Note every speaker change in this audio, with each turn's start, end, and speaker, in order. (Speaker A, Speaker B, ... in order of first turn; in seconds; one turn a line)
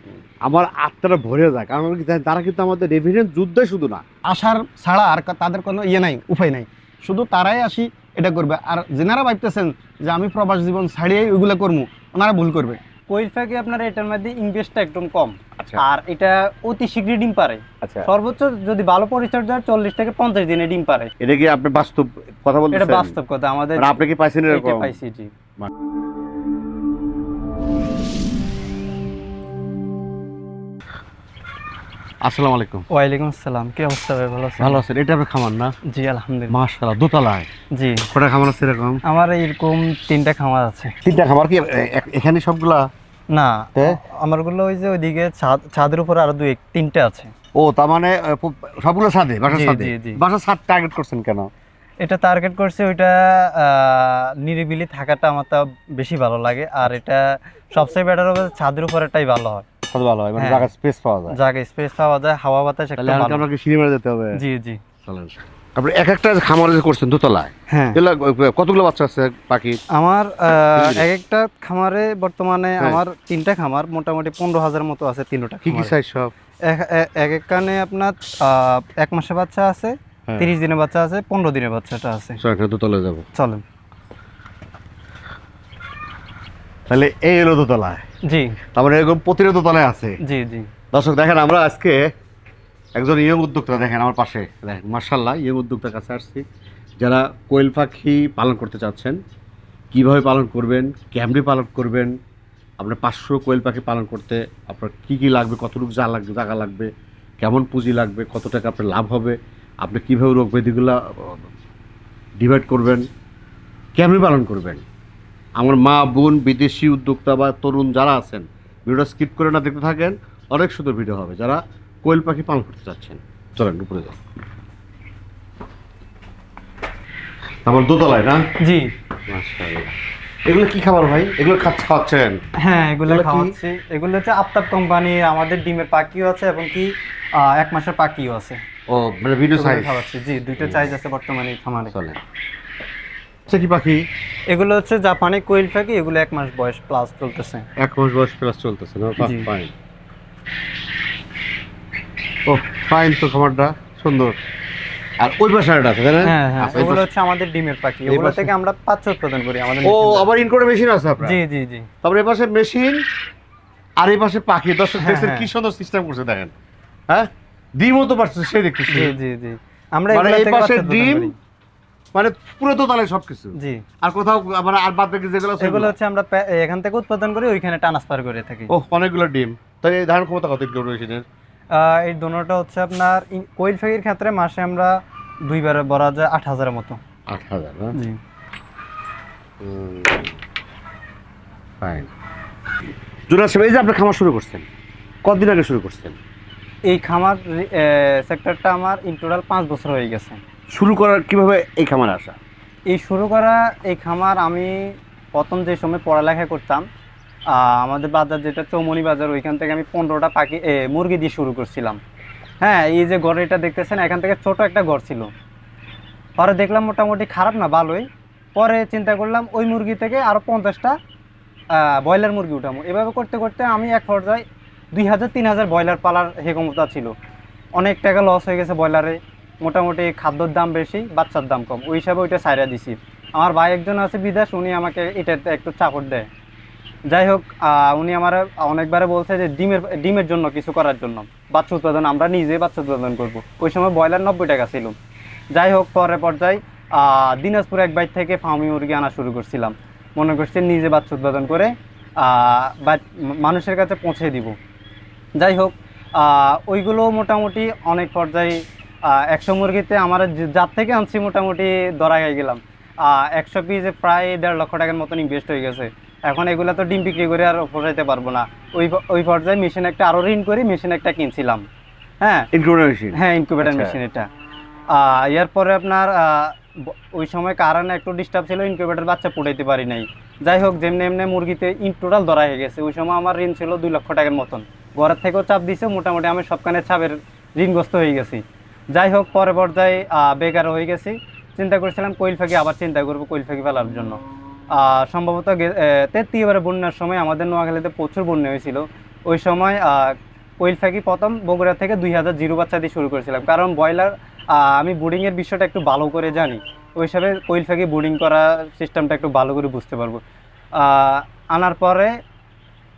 Speaker A: 0.4-4.0
Speaker B: 4.3-12.8
Speaker C: 13.1-21.1
Speaker A: 15.6-15.8
Speaker A: 17.8-18.1
Speaker A: 21.2-23.1
Speaker C: 22.7-25.3
Speaker A: 23.8-24.9
Speaker A: 32.2-32.9
Speaker C: 32.9-34.8
Speaker A: 34.6-35.7
Speaker C: 35.9-36.5
Speaker A: 36.5-37.5
Speaker C: 37.7-38.1
Speaker A: 38.1-39.0
Speaker C: 39.0-41.0
Speaker A: 41.0-42.9
Speaker C: 43.3-47.3
Speaker A: 47.5-51.5
Speaker C: 49.5-50.2
Speaker C: 52.0-59.6
Speaker A: 59.9-61.4
Speaker C: 60.4-60.7
Speaker C: 61.3-63.4
Speaker A: 63.0-64.4
Speaker C: 64.4-64.8
Speaker A: 65.0-69.8
Speaker C: 67.7-68.0
Speaker C: 69.9-75.9
Speaker A: 70.8-71.1
Speaker A: 75.7-76.3
Speaker C: 76.7-82.4
Speaker A: 82.4-83.3
Speaker C: 83.3-83.6
Speaker A: 86.9-88.0
Speaker C: 88.3-88.6
Speaker A: 88.8-90.2
Speaker C: 90.2-90.7
Speaker A: 90.9-92.0
Speaker A: 93.0-96.5
Speaker A: 97.0-99.2
Speaker A: 99.9-102.2
Speaker A: 102.8-111.4
Speaker A: 112.4-113.1
Speaker A: 114.0-114.8
Speaker A: 115.6-124.2
Speaker A: 127.7-128.4
Speaker C: 128.6-128.9
Speaker A: 129.3-129.9
Speaker A: 130.5-132.4
Speaker C: 132.6-138.6
Speaker A: 133.1-133.6
Speaker A: 138.9-139.9
Speaker C: 139.6-141.9
Speaker A: 140.6-140.9
Speaker A: 141.9-142.2
Speaker A: 143.5-144.1
Speaker C: 144.5-147.7
Speaker A: 147.8-149.7
Speaker C: 149.2-149.5
Speaker A: 152.5-154.4
Speaker A: 155.2-157.1
Speaker C: 156.2-160.3
Speaker A: 158.1-158.5
Speaker A: 159.8-161.4
Speaker C: 161.2-161.9
Speaker A: 162.0-163.0
Speaker A: 164.0-166.6
Speaker C: 165.0-165.5
Speaker A: 167.1-169.2
Speaker C: 168.9-171.3
Speaker A: 170.1-171.3
Speaker A: 172.1-175.9
Speaker C: 173.6-173.8
Speaker C: 175.6-178.7
Speaker A: 178.7-181.2
Speaker C: 181.7-187.0
Speaker A: 187.3-188.0
Speaker A: 189.6-190.3
Speaker A: 191.8-192.1
Speaker A: 193.3-194.7
Speaker A: 195.2-196.2
Speaker C: 196.9-200.4
Speaker A: 200.7-202.4
Speaker C: 202.9-206.8
Speaker C: 207.5-212.0
Speaker C: 212.6-215.3
Speaker C: 216.4-221.0
Speaker C: 221.8-227.1
Speaker C: 227.8-236.3
Speaker C: 237.1-245.0
Speaker C: 245.5-254.6
Speaker C: 255.4-271.6
Speaker C: 272.2-272.5
Speaker A: 272.5-273.9
Speaker C: 273.1-274.3
Speaker C: 274.9-294.2
Speaker C: 294.7-310.2
Speaker C: 310.8-312.1